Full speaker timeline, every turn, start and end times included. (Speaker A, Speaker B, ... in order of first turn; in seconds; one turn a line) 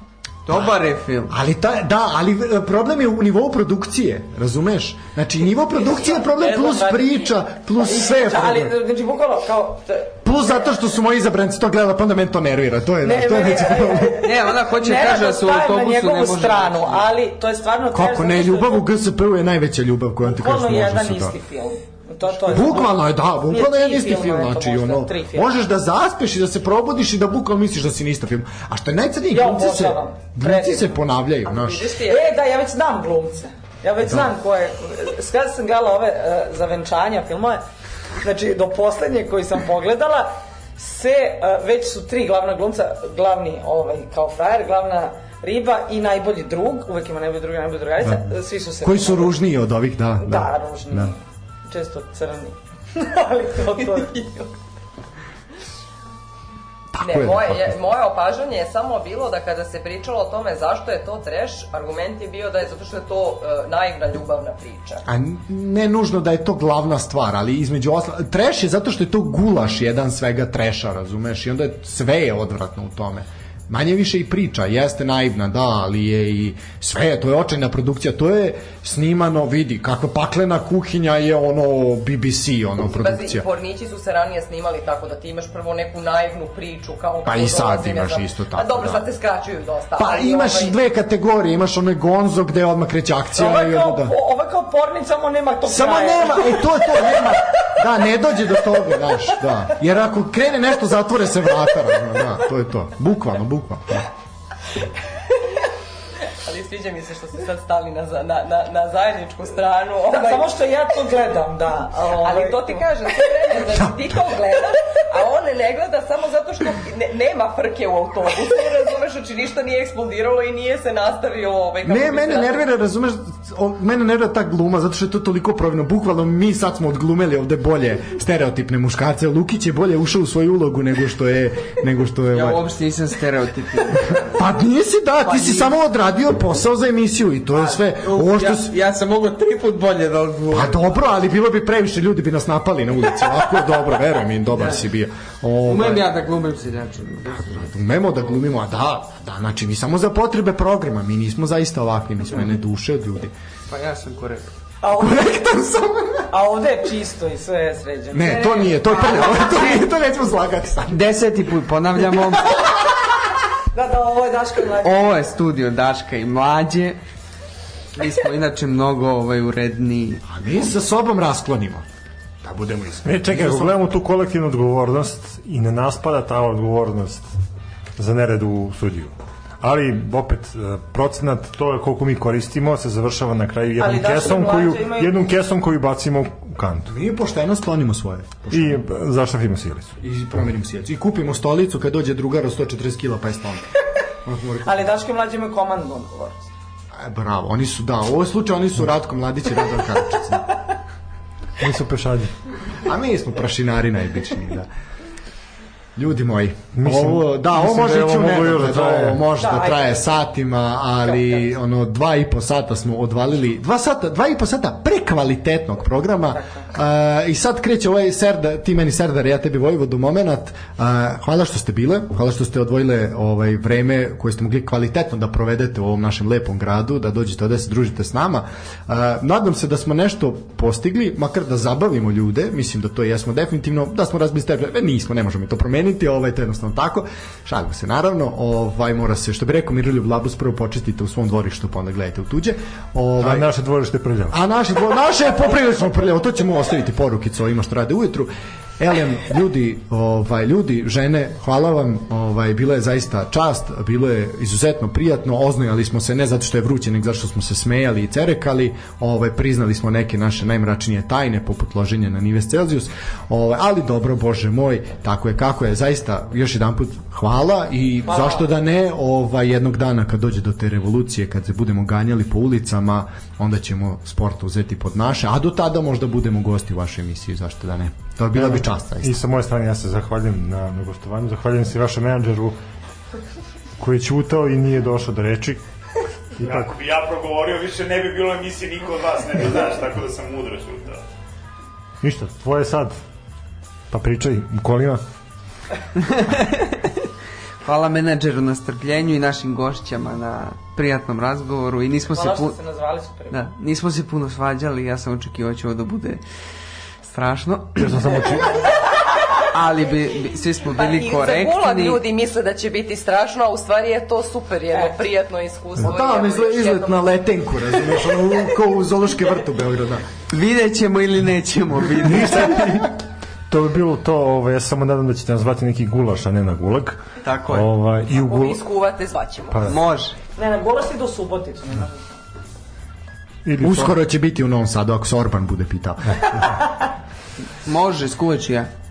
Speaker A: 0.5-1.3
Speaker B: 1.3-8.7
Speaker C: 6.1-7.0
Speaker D: 7.8-10.2
Speaker B: 10.2-14.3
Speaker D: 13.0-18.8
Speaker A: 14.2-17.1
Speaker B: 17.9-21.4
Speaker D: 20.2-23.0
Speaker B: 22.5-31.9
Speaker D: 23.5-25.5
Speaker D: 29.3-31.0
Speaker C: 31.4-32.3
Speaker D: 32.0-37.6
Speaker B: 34.0-34.3
Speaker D: 38.2-49.4
Speaker B: 48.0-48.3
Speaker B: 48.8-51.1
Speaker D: 50.2-54.2
Speaker C: 54.0-54.5
Speaker B: 56.9-57.8
Speaker C: 57.0-65.0
Speaker B: 65.0-83.5
Speaker C: 82.8-90.8
Speaker B: 87.2-89.0
Speaker B: 90.0-94.2
Speaker D: 93.3-97.0
Speaker B: 95.7-104.1
Speaker C: 106.4-110.5
Speaker D: 110.1-112.8
Speaker C: 112.2-122.7
Speaker B: 113.8-114.1
Speaker B: 121.8-132.6
Speaker A: 132.3-134.4
Speaker B: 134.2-138.7
Speaker A: 135.2-135.7
Speaker A: 137.7-140.8
Speaker B: 140.5-146.1
Speaker A: 145.6-147.7
Speaker B: 147.3-153.3
Speaker A: 153.7-154.5
Speaker D: 154.8-155.4
Speaker B: 154.9-156.3
Speaker D: 156.3-158.6
Speaker B: 158.1-161.1
Speaker A: 158.3-159.8
Speaker A: 160.9-162.7
Speaker D: 163.7-165.2
Speaker A: 164.8-167.0
Speaker A: 167.9-170.2
Speaker B: 170.2-171.8
Speaker B: 172.4-173.8
Speaker E: 173.0-177.3
Speaker E: 178.0-186.9
Speaker D: 183.8-185.3
Speaker B: 186.9-188.8
Speaker E: 188.5-189.9
Speaker B: 190.0-193.6
Speaker B: 194.2-194.9
Speaker D: 194.6-196.5
Speaker B: 197.0-200.6
Speaker E: 201.6-202.3
Speaker B: 202.8-204.7
Speaker B: 205.9-243.5
Speaker E: 206.7-209.3
Speaker D: 209.4-210.1
Speaker D: 216.3-216.6
Speaker E: 243.2-244.4
Speaker B: 244.3-279.2
Speaker D: 268.1-268.4
Speaker E: 278.4-282.6
Speaker E: 283.8-285.6
Speaker E: 286.4-286.7
Speaker F: 286.4-291.0
Speaker E: 292.0-293.0
Speaker E: 293.9-295.0
Speaker A: 295.9-296.9
Speaker A: 297.6-302.6
Speaker D: 302.1-303.4
Speaker A: 303.3-306.2
Speaker A: 307.0-308.2
Speaker E: 307.8-308.7
Speaker A: 309.4-312.0
Speaker C: 310.7-317.0
Speaker B: 315.8-320.0
Speaker A: 320.3-322.6
Speaker E: 322.0-322.9
Speaker E: 323.5-328.6
Speaker A: 327.2-327.7
Speaker C: 328.1-329.8
Speaker E: 329.5-329.8
Speaker A: 329.7-330.1
Speaker D: 330.4-332.1
Speaker E: 333.4-334.0
Speaker B: 333.6-336.5
Speaker A: 337.6-338.7